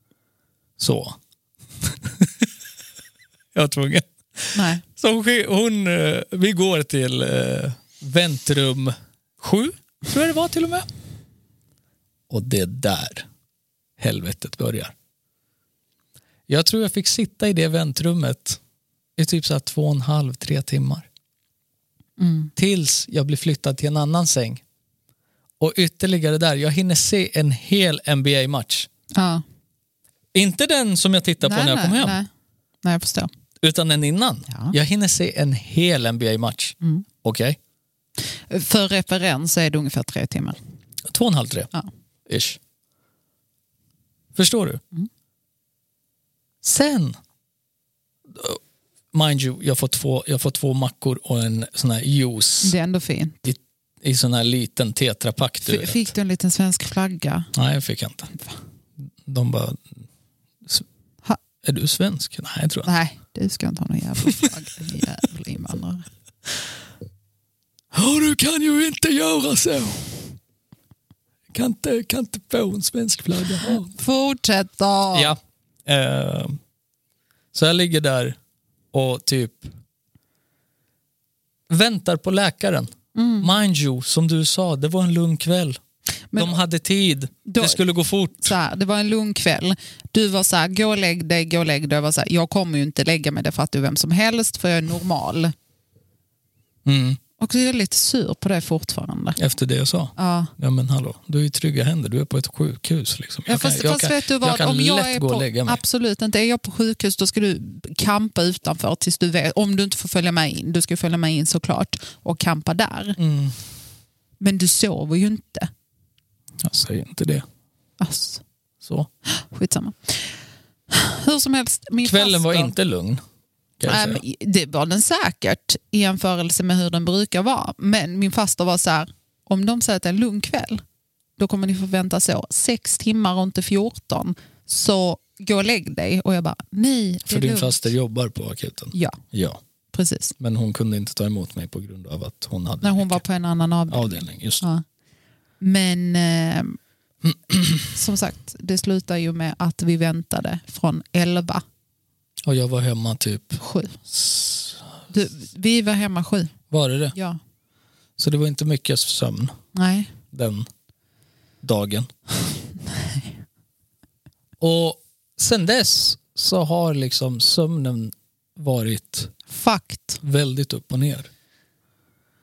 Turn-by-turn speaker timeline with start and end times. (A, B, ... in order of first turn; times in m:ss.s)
0:00.8-0:01.2 A
0:01.8-0:02.5 A
0:03.5-0:10.9 A
0:04.5-0:04.8 B
0:12.3-0:13.3 A
0:14.0-0:14.9 A
0:16.5-0:18.6 A
0:19.2-0:21.1 A
0:22.2-0:22.5 B
0:22.6-0:24.6 A
0:25.6-0:28.9 A
0:29.1-0:29.4 B
0:30.3-0:32.2 A
0:31.4-0:32.3 B
0:32.8-0:33.3 B
0:33.6-0:37.6 A
0:34.5-0:34.7 B
0:38.2-0:40.6 B
0:41.1-0:41.7 A
0:42.3-0:42.6 A
0:44.3-0:44.8 A
0:46.6-0:47.2 A
0:48.3-0:48.6 A
0:49.1-0:52.7 A
0:52.6-0:53.5 B
0:53.4-0:56.1 A
0:55.6-0:57.5 B
0:57.5-0:58.3 A
0:59.2-1:00.0 A
1:01.6-1:02.9 A
1:02.8-1:06.1 B
1:07.9-1:10.1 A
1:11.5-1:13.9 A
1:13.6-1:15.3 B
1:15.1-1:16.6 A
1:17.5-1:18.4 A
1:18.9-1:19.7 A
1:21.7-1:25.8 A
1:23.1-1:23.5 B
1:26.3-1:26.6 B
1:26.4-1:28.5 A
1:27.4-1:27.8 B
1:28.4-1:35.5 B
1:36.8-1:37.2 A
1:37.4-1:39.4 B
1:39.4-1:45.8 A
1:40.2-1:40.5 B
1:43.5-1:53.2 B
1:53.2-1:53.6 A
1:54.4-1:55.7 B
1:56.6-1:57.4 A
1:58.0-1:58.4 B
1:58.8-1:59.1 A
1:59.3-2:00.4 B
2:00.9-2:02.7 B
2:02.0-2:03.2 A
2:03.8-2:04.2 A
2:03.9-2:10.8 B
2:11.4-2:17.9 B
2:17.3-2:19.6 A
2:18.9-2:19.2 B
2:19.9-2:20.3 B
2:20.4-2:23.2 A
2:22.8-2:24.8 B
2:23.9-2:24.6 A
2:25.6-2:26.8 B
2:27.2-2:27.8 A
2:27.9-2:31.6 B
2:32.4-2:33.6 A
2:33.6-2:34.0 B
2:34.1-2:34.8 A
2:35.1-2:36.5 B
2:36.7-2:37.1 A
2:37.1-2:37.4 B
2:38.2-2:39.5 A
2:39.7-2:40.1 B
2:40.3-2:40.7 A
2:41.6-2:42.1 A
2:42.9-2:43.3 B
2:44.6-2:49.3 A
2:49.5-2:50.2 B
2:50.2-2:51.3 A